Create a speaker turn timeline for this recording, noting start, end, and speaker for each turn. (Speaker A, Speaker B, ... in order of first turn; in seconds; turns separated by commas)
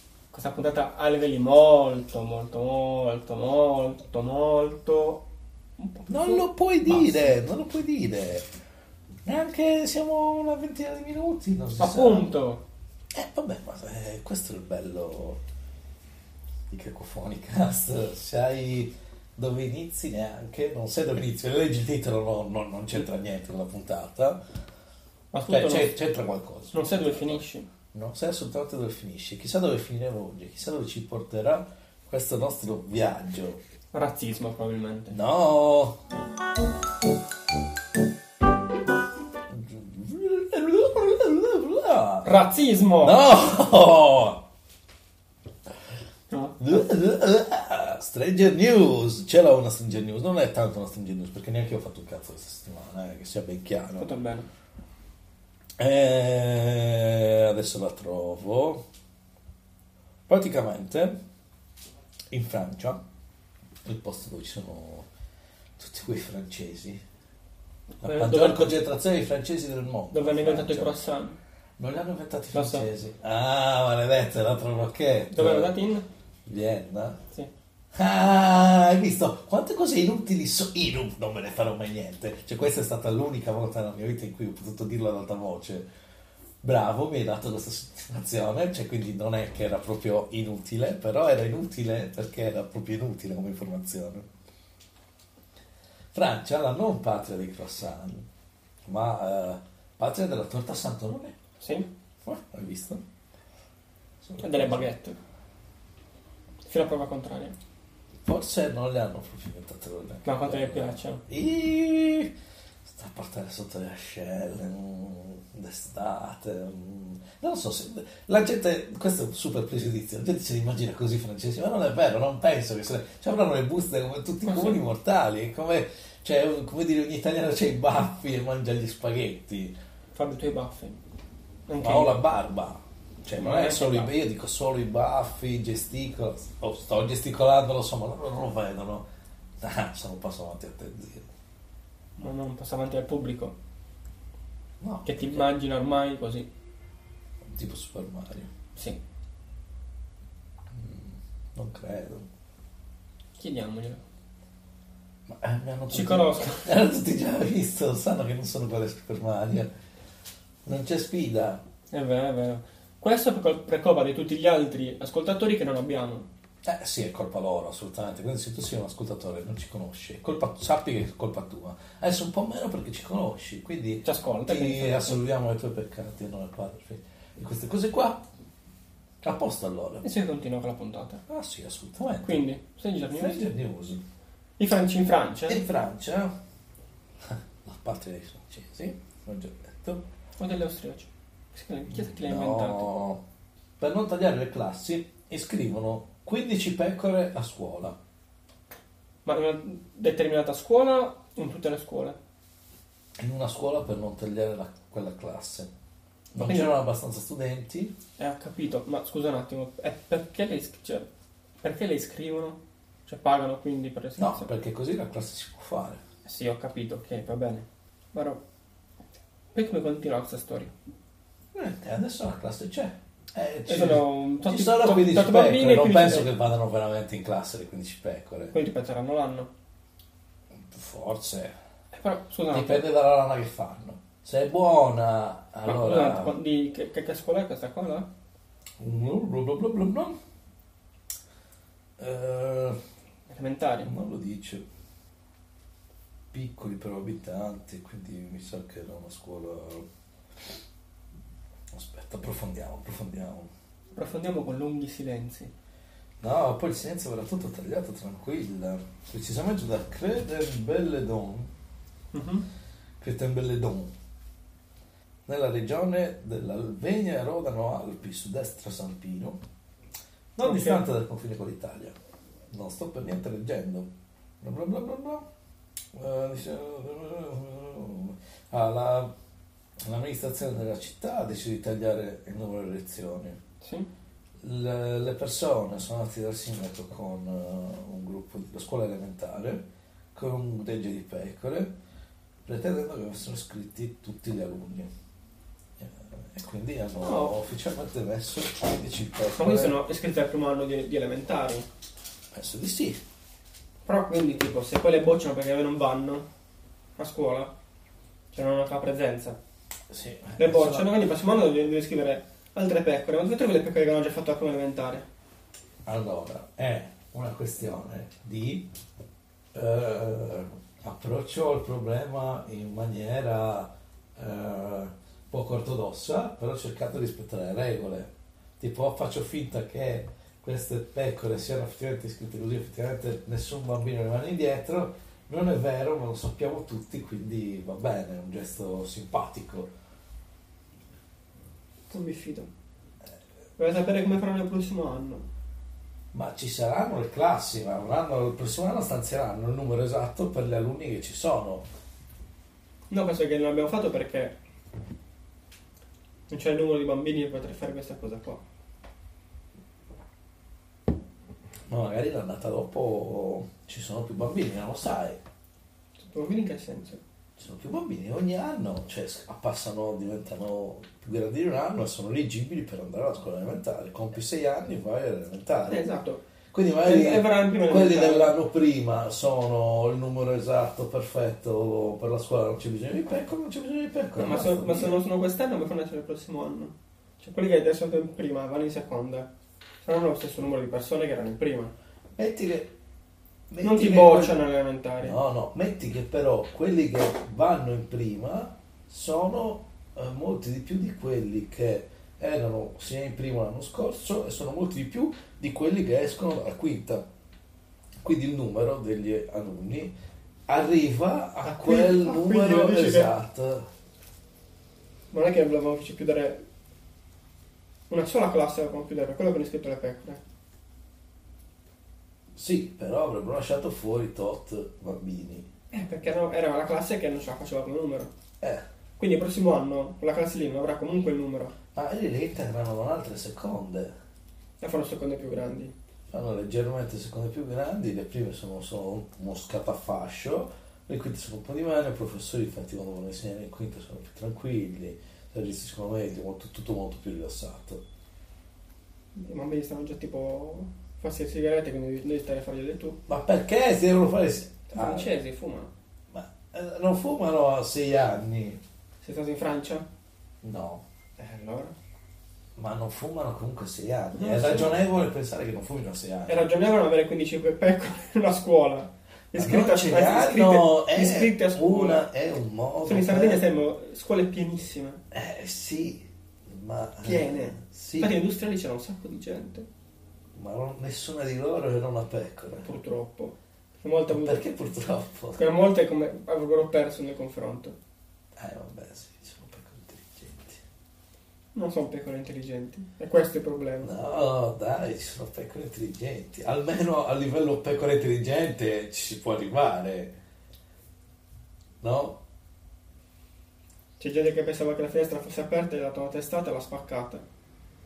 Speaker A: 0.3-5.2, Speaker A: 5.8-7.3, Speaker B: 6.1-8.5, Speaker B: 9.2-12.3, Speaker A: 11.8-12.6, Speaker B: 13.1-15.4, Speaker B: 16.7-24.4, Speaker A: 25.3-25.9, Speaker B: 25.4-33.6, Speaker A: 26.7-27.7, Speaker A: 33.9-35.1, Speaker B: 35.1-36.0, Speaker B: 39.5-42.3, Speaker A: 42.2-43.2, Speaker B: 43.0-44.4, Speaker A: 46.3-46.6, Speaker B: 46.6-54.1, Speaker A: 54.0-54.5, Speaker B: 55.8-58.8, Speaker B: 60.3-61.2, Speaker B: 62.3-63.0, Speaker B: 63.8-65.1, Speaker B: 65.8-67.0, Speaker A: 68.0-68.7, Speaker B: 68.0-70.9, Speaker A: 70.1-71.4, Speaker B: 71.8-75.8, Speaker A: 72.5-72.9, Speaker A: 75.3-76.0, Speaker B: 76.4-77.2, Speaker B: 77.9-85.9, Speaker B: 86.6-94.3, Speaker B: 96.1-98.3, Speaker B: 98.8-101.3, Speaker A: 101.6-101.9, Speaker B: 102.2-103.0, Speaker B: 104.2-104.9, Speaker A: 104.4-105.2, Speaker A: 106.7-107.5, Speaker B: 108.2-112.3, Speaker A: 110.2-111.2, Speaker B: 112.8-129.7, Speaker A: 124.4-124.8, Speaker A: 130.1-131.0, Speaker A: 131.7-132.2, Speaker B: 131.8-139.0, Speaker A: 133.4-134.1, Speaker B: 139.6-141.2, Speaker A: 142.2-143.5, Speaker B: 144.8-145.5, Speaker A: 145.0-146.5, Speaker B: 147.5-148.5, Speaker B: 150.7-152.3, Speaker A: 153.4-154.0, Speaker B: 155.3-159.7, Speaker A: 155.9-156.7, Speaker B: 160.6-161.6, Speaker A: 161.9-166.3, Speaker B: 166.6-178.2, Speaker A: 174.0-175.2, Speaker B: 179.2-180.0, Speaker A: 180.0-181.2, Speaker B: 181.3-182.4, Speaker A: 182.2-183.5, Speaker B: 183.1-184.0, Speaker A: 184.6-185.6, Speaker B: 185.5-186.3, Speaker B: 187.2-190.0, Speaker A: 190.4-192.9, Speaker B: 191.9-193.2, Speaker B: 193.8-197.9, Speaker A: 199.2-202.2, Speaker B: 203.2-205.7, Speaker B: 206.3-207.9, Speaker A: 206.4-206.8, Speaker A: 208.2-211.1, Speaker A: 211.6-214.5, Speaker B: 214.2-216.0, Speaker A: 216.2-218.4, Speaker A: 219.5-220.7, Speaker B: 221.5-228.5, Speaker A: 223.7-226.3, Speaker A: 228.5-229.5, Speaker B: 230.6-231.5, Speaker A: 231.9-232.8, Speaker B: 232.5-236.3, Speaker A: 235.6-238.1, Speaker B: 238.8-240.2, Speaker B: 242.0-242.8, Speaker A: 243.3-243.9, Speaker B: 243.8-244.6, Speaker B: 246.3-249.8, Speaker B: 251.7-253.5, Speaker A: 253.9-255.5, Speaker B: 256.2-261.5, Speaker A: 262.1-262.4, Speaker B: 263.0-263.9, Speaker B: 265.2-269.4, Speaker A: 270.4-270.8, Speaker B: 270.4-271.9, Speaker B: 272.5-273.9, Speaker B: 274.4-275.2, Speaker B: 275.9-279.1, Speaker B: 279.8-283.4, Speaker A: 283.6-283.9, Speaker B: 284.4-291.7, Speaker B: 292.4-294.9, Speaker B: 295.8-299.8, Speaker A: 297.0-297.3, Speaker A: 299.3-301.7, Speaker B: 302.3-303.0, Speaker A: 303.9-306.3, Speaker A: 307.0-307.5, Speaker A: 308.3-309.4, Speaker B: 309.9-310.9, Speaker A: 310.4-315.1, Speaker B: 315.8-318.7, Speaker B: 319.5-339.7, Speaker A: 341.9-342.5, Speaker A: 343.6-345.3, Speaker B: 346.1-351.6, Speaker A: 352.9-354.3, Speaker A: 356.3-358.4, Speaker B: 361.7-365.2, Speaker A: 366.0-367.0, Speaker B: 367.4-375.9, Speaker A: 375.7-376.2, Speaker B: 376.5-385.0, Speaker A: 376.8-378.3, Speaker A: 384.2-389.3, Speaker A: 389.8-391.7, Speaker B: 392.1-392.7, Speaker B: 393.5-394.4, Speaker A: 393.6-395.2, Speaker B: 395.0-407.0, Speaker B: 408.0-409.9, Speaker B: 410.5-413.7, Speaker A: 411.4-413.1, Speaker A: 415.1-416.4, Speaker A: 417.9-420.2, Speaker B: 422.4-425.5, Speaker A: 425.7-428.1, Speaker A: 429.0-431.5, Speaker B: 431.7-433.9, Speaker A: 434.6-435.7, Speaker B: 436.1-447.8, Speaker A: 449.1-453.0, Speaker B: 453.1-455.1, Speaker A: 454.7-455.7, Speaker B: 456.1-458.6, Speaker A: 459.0-459.9, Speaker B: 460.4-460.8, Speaker A: 461.2-461.7, Speaker B: 462.6-466.5, Speaker A: 464.1-464.8, Speaker A: 466.3-472.0, Speaker B: 469.3-473.4, Speaker A: 472.8-475.0, Speaker B: 475.1-478.2, Speaker A: 477.0-479.7, Speaker B: 480.3-482.7, Speaker A: 482.6-484.5, Speaker B: 484.1-485.5, Speaker A: 485.4-487.8, Speaker B: 488.4-490.6, Speaker A: 491.5-493.9, Speaker B: 493.8-500.1, Speaker B: 501.8-502.2, Speaker A: 504.0-507.2